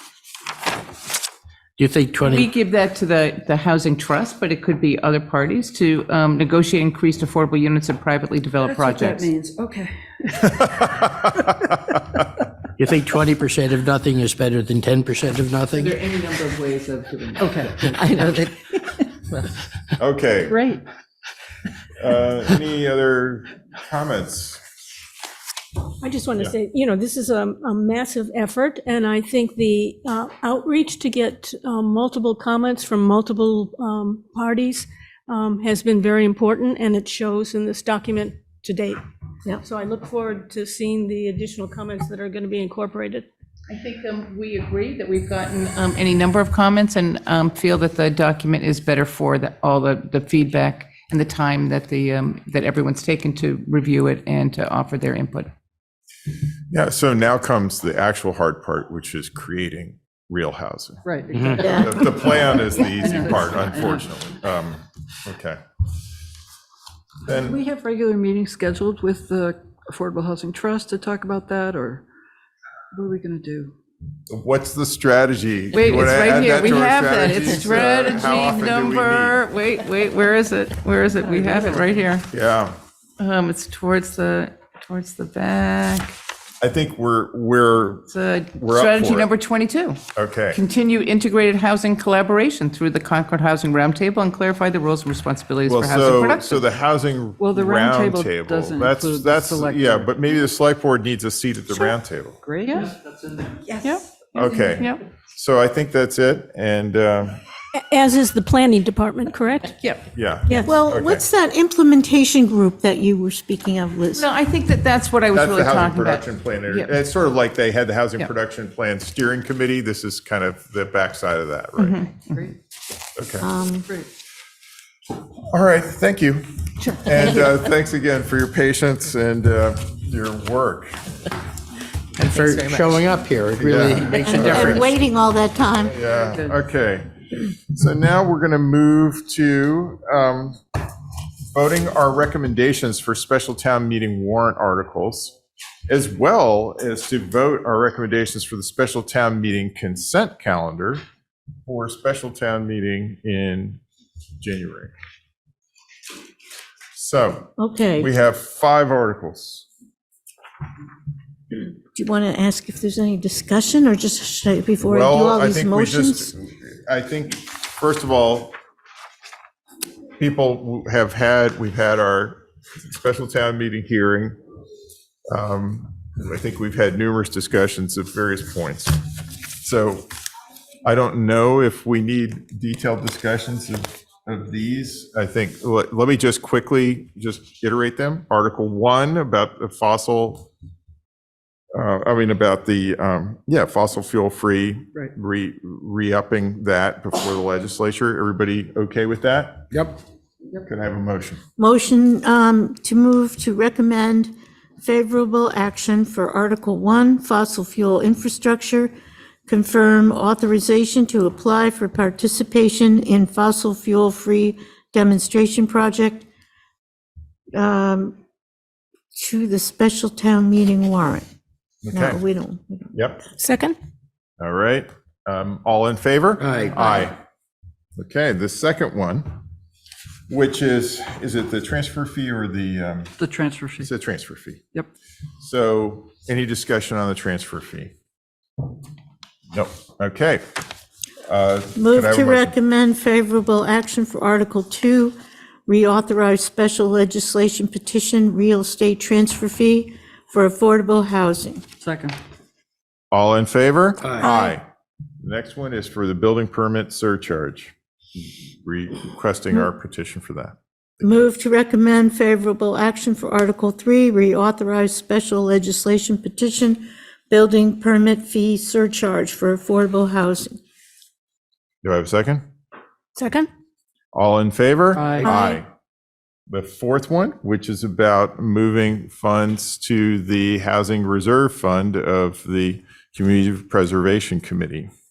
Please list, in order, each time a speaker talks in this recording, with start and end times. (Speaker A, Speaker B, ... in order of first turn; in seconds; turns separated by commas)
Speaker A: 1.8-2.5, Speaker B: 2.2-9.3, Speaker C: 8.6-10.5, Speaker D: 10.6-11.7, Speaker A: 12.8-16.0, Speaker B: 15.7-17.5, Speaker C: 17.4-17.7, Speaker E: 17.4-19.6, Speaker D: 20.0-20.6, Speaker C: 20.5-20.8, Speaker D: 22.0-24.6, Speaker F: 26.0-39.0, Speaker F: 39.6-43.3, Speaker B: 43.7-55.5, Speaker D: 56.7-61.0, Speaker C: 61.0-64.1, Speaker A: 61.3-61.6, Speaker G: 61.6-62.1, Speaker D: 61.6-65.6, Speaker D: 67.2-67.6, Speaker C: 67.3-72.0, Speaker C: 72.9-73.7, Speaker D: 74.3-79.4, Speaker B: 75.7-82.3, Speaker D: 82.3-82.8, Speaker B: 83.2-86.1, Speaker D: 86.6-89.3, Speaker B: 88.1-90.0, Speaker D: 90.1-90.6, Speaker B: 90.5-96.6, Speaker D: 95.6-102.4, Speaker C: 97.4-100.3, Speaker C: 101.7-103.0, Speaker B: 102.6-102.9, Speaker C: 103.6-103.9, Speaker B: 103.8-104.0, Speaker D: 104.3-107.4, Speaker B: 104.7-105.0, Speaker F: 107.7-109.8, Speaker D: 110.1-111.2, Speaker F: 110.5-110.7, Speaker G: 110.6-114.3, Speaker B: 114.1-116.9, Speaker D: 115.3-122.2, Speaker B: 121.8-122.1, Speaker C: 122.3-122.5, Speaker D: 123.2-123.5, Speaker G: 123.4-123.9, Speaker D: 125.5-131.0, Speaker E: 132.2-133.0, Speaker A: 132.2-134.8, Speaker D: 133.6-134.9, Speaker G: 134.2-136.0, Speaker D: 135.9-137.1, Speaker C: 136.1-136.6, Speaker D: 137.7-140.6, Speaker D: 141.5-145.3, Speaker D: 145.9-151.0, Speaker D: 151.7-153.8, Speaker D: 154.4-154.9, Speaker D: 156.9-159.7, Speaker G: 157.6-158.1, Speaker G: 161.9-166.3, Speaker D: 164.8-168.5, Speaker D: 170.2-174.4, Speaker D: 175.3-179.0, Speaker D: 179.6-180.1, Speaker D: 180.8-190.5, Speaker D: 191.7-199.9, Speaker D: 200.6-201.4, Speaker G: 201.6-208.9, Speaker G: 209.5-216.3, Speaker G: 217.5-218.2, Speaker G: 219.1-221.2, Speaker D: 221.8-222.2, Speaker G: 221.9-222.9, Speaker D: 222.9-223.2, Speaker F: 223.4-223.8, Speaker D: 224.4-227.2, Speaker A: 226.4-226.8, Speaker D: 227.9-229.3, Speaker D: 230.3-233.2, Speaker C: 233.2-233.9, Speaker D: 233.8-234.6, Speaker D: 235.4-237.9, Speaker D: 239.5-240.4, Speaker D: 241.3-242.5, Speaker G: 241.7-245.1, Speaker G: 245.7-251.6, Speaker C: 251.8-252.2, Speaker D: 253.1-254.6, Speaker D: 255.2-257.7, Speaker D: 258.6-261.1, Speaker G: 261.0-270.5, Speaker D: 271.8-272.4, Speaker F: 273.1-273.5, Speaker D: 274.1-275.7, Speaker F: 275.2-275.6, Speaker D: 276.5-284.9